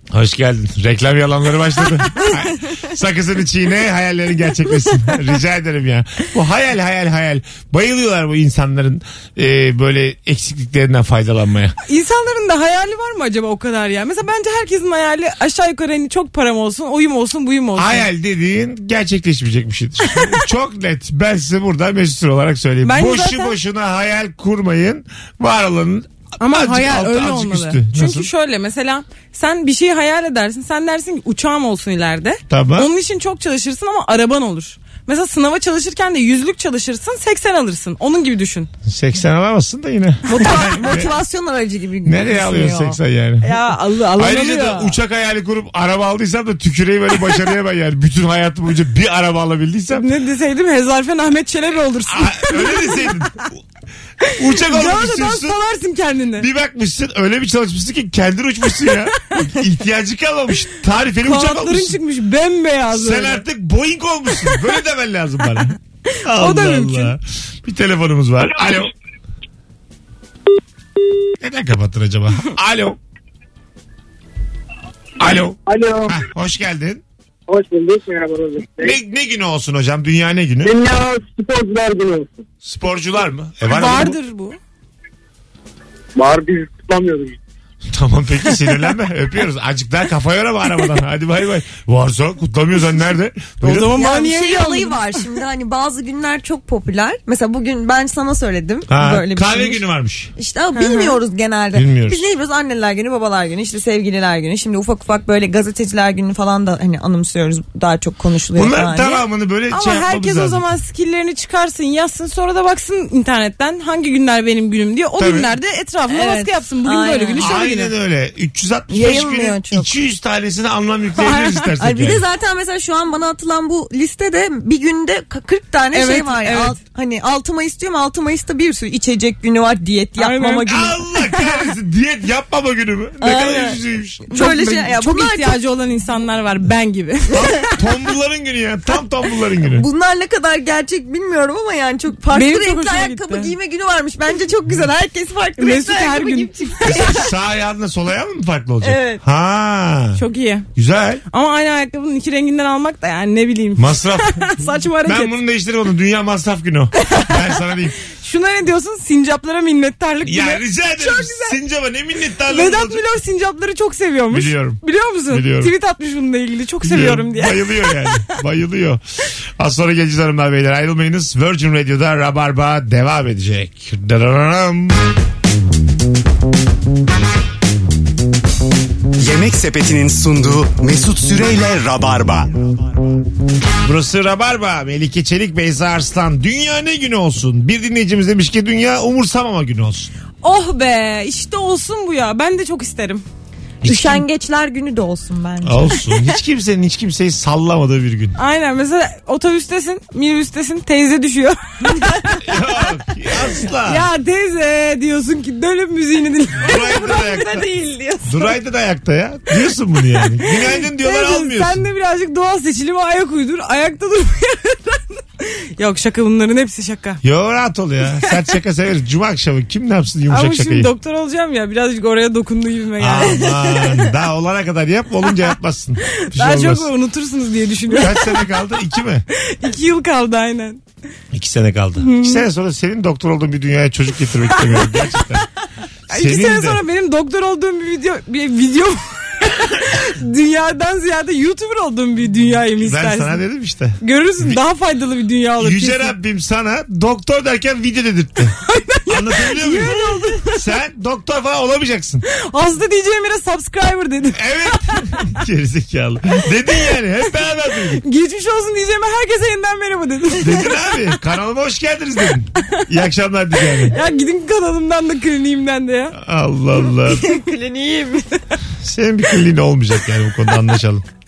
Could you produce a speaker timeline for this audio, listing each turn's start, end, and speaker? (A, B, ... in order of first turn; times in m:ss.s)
0:00.1-0:11.8 A
0:11.9-0:18.1 B
0:17.8-0:28.3 A
0:22.8-0:23.6 B
0:26.4-0:38.7 B
0:32.5-0:32.9 A
0:38.9-0:41.1 A
0:40.3-0:43.0 C
0:42.0-0:43.6 A
0:43.4-0:45.0 B
0:44.2-0:50.1 A
0:49.9-0:53.1 B
0:52.1-0:53.6 A
0:54.2-0:55.6 A
0:54.5-0:56.5 B
0:56.4-1:02.0 A
1:01.2-1:03.4 B
1:02.9-1:08.9 A
1:06.4-1:07.2 B
1:11.4-1:13.0 A
1:15.2-1:17.0 A
1:15.7-1:16.2 D
1:17.5-1:19.0 D
1:18.8-1:20.8 A
1:20.6-1:22.4 D
1:22.6-1:24.2 A
1:23.7-1:24.6 B
1:26.2-1:27.4 D
1:27.9-1:34.0 A
1:33.6-1:35.0 B
1:34.0-1:39.8 C
1:38.9-1:40.3 A
1:40.4-1:49.2 C
1:40.8-1:41.2 B
1:41.8-1:42.2 A
1:48.6-1:50.6 A
1:49.7-1:57.9 B
1:55.2-1:55.5 A
1:56.1-1:57.5 C
1:57.4-2:02.2 A
1:58.9-1:59.9 C
2:01.2-2:01.7 B
2:01.8-2:11.0 C
2:05.9-2:06.8 B
2:10.2-2:10.7 B
2:10.7-2:14.3 A
2:13.2-2:15.6 C
2:14.3-2:17.6 B
2:17.3-2:19.9 A
2:19.7-2:27.3 C
2:22.3-2:23.5 B
2:25.6-2:26.8 B
2:26.8-2:30.2 A
2:28.8-2:29.2 C
2:30.2-2:30.7 B
2:30.8-2:31.2 A
2:31.3-2:35.3 B
2:33.8-2:34.5 A
2:35.0-2:38.0 A
2:38.1-2:41.6 B
2:40.2-2:43.0 A
2:42.5-2:48.2 B
2:44.3-2:45.7 A
2:46.8-2:49.0 A
2:49.6-2:55.0 A
2:59.2-3:02.6 E
3:03.8-3:10.1 A
3:10.4-3:13.2 B
3:13.8-3:14.2 A
3:13.8-3:16.0 C
3:15.6-3:18.4 A
3:18.4-3:22.2 B
3:21.9-3:22.5 C
3:22.4-3:24.1 A
3:23.9-3:27.2 B
3:26.6-3:27.7 A
3:26.6-3:28.5 C
3:28.2-3:31.8 A
3:30.4-3:37.2 B
3:37.2-3:40.9 A
3:40.3-3:44.1 B
3:43.0-3:46.9 A
3:46.1-3:48.5 B
3:47.9-3:49.2 A
3:49.3-3:50.8 B
3:51.3-3:55.5 A
3:52.0-3:52.4 B
3:54.5-3:54.9 B
3:56.1-3:56.8 A
3:56.1-4:03.4 B
4:02.8-4:04.6 A
4:04.0-4:06.2 B
4:05.6-4:12.2 A
4:08.7-4:10.6 B
4:12.3-4:15.0 B
4:14.3-4:18.0 A
4:18.0-4:20.7 B
4:20.4-4:24.0 A
4:23.9-4:26.2 B
4:26.2-4:27.3 A
4:27.0-4:28.3 C
4:28.8-4:31.0 A